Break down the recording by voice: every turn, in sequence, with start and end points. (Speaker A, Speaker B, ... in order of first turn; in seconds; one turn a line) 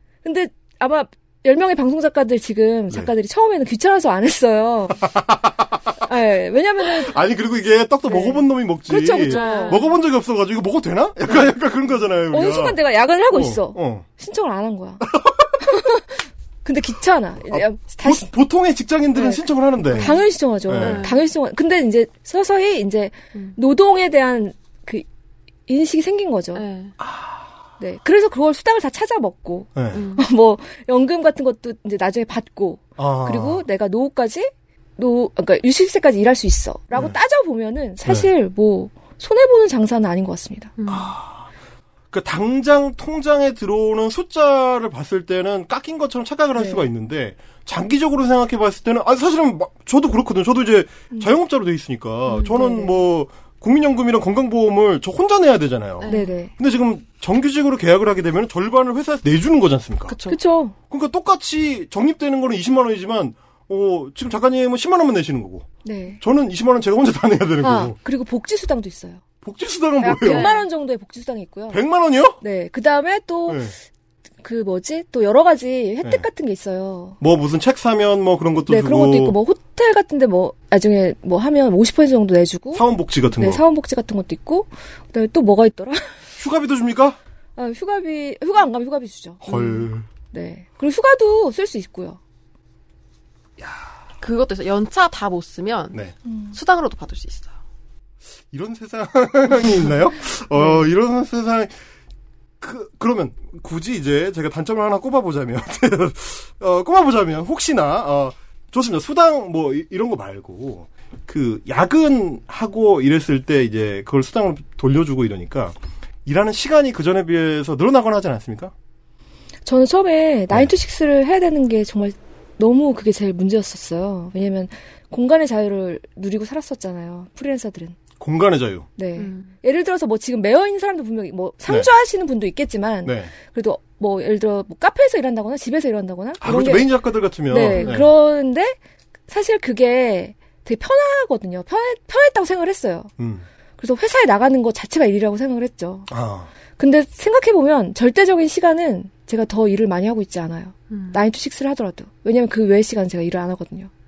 Speaker A: 0.2-5.0
Speaker B: 5.0-5.9
Speaker A: 6.1-7.2
Speaker B: 7.0-12.8
Speaker A: 8.1-9.8
Speaker C: 9.3-10.0
Speaker A: 12.3-15.1
Speaker B: 13.3-14.1
Speaker B: 15.0-15.6
Speaker A: 15.6-18.3
Speaker B: 17.5-21.1
Speaker A: 19.1-19.4
Speaker C: 19.9-21.3
Speaker A: 20.0-25.1
Speaker A: 25.7-26.6
Speaker C: 26.6-26.9
Speaker B: 27.0-27.5
Speaker A: 27.8-40.7
Speaker B: 29.8-30.1
Speaker C: 29.9-30.2
Speaker B: 33.0-33.6
Speaker C: 40.8-41.1
Speaker B: 40.9-41.5
Speaker B: 42.1-60.2
Speaker A: 46.5-46.9
Speaker A: 52.4-53.0
Speaker C: 56.0-56.3
Speaker A: 56.1-56.5
Speaker C: 60.1-60.4
Speaker A: 60.3-60.8
Speaker B: 60.9-65.7
Speaker A: 65.8-66.2
Speaker B: 66.2-68.0
Speaker A: 67.6-69.2
Speaker B: 69.4-70.5
Speaker A: 70.0-71.8
Speaker C: 70.2-70.7
Speaker B: 71.7-72.4
Speaker A: 72.4-73.7
Speaker B: 73.5-73.8
Speaker A: 74.4-77.2
Speaker B: 77.2-79.4
Speaker A: 78.7-82.9
Speaker B: 82.7-83.6
Speaker A: 83.4-86.1
Speaker B: 86.4-87.2
Speaker A: 87.6-89.4
Speaker C: 89.5-89.9
Speaker B: 89.5-90.1
Speaker A: 90.3-92.2
Speaker B: 93.6-93.9
Speaker C: 94.2-96.0
Speaker A: 96.3-96.5
Speaker C: 96.5-97.5
Speaker B: 98.5-101.7
Speaker B: 102.6-115.8
Speaker B: 116.3-118.7
Speaker A: 119.7-128.0
Speaker B: 128.2-128.9
Speaker A: 129.0-136.9
Speaker C: 129.2-129.5
Speaker B: 133.1-133.3
Speaker B: 136.4-138.1
Speaker A: 137.4-143.1
Speaker C: 137.7-138.0
Speaker B: 143.2-143.5
Speaker A: 143.8-146.1
Speaker B: 146.1-146.5
Speaker A: 146.8-153.9
Speaker C: 150.9-151.2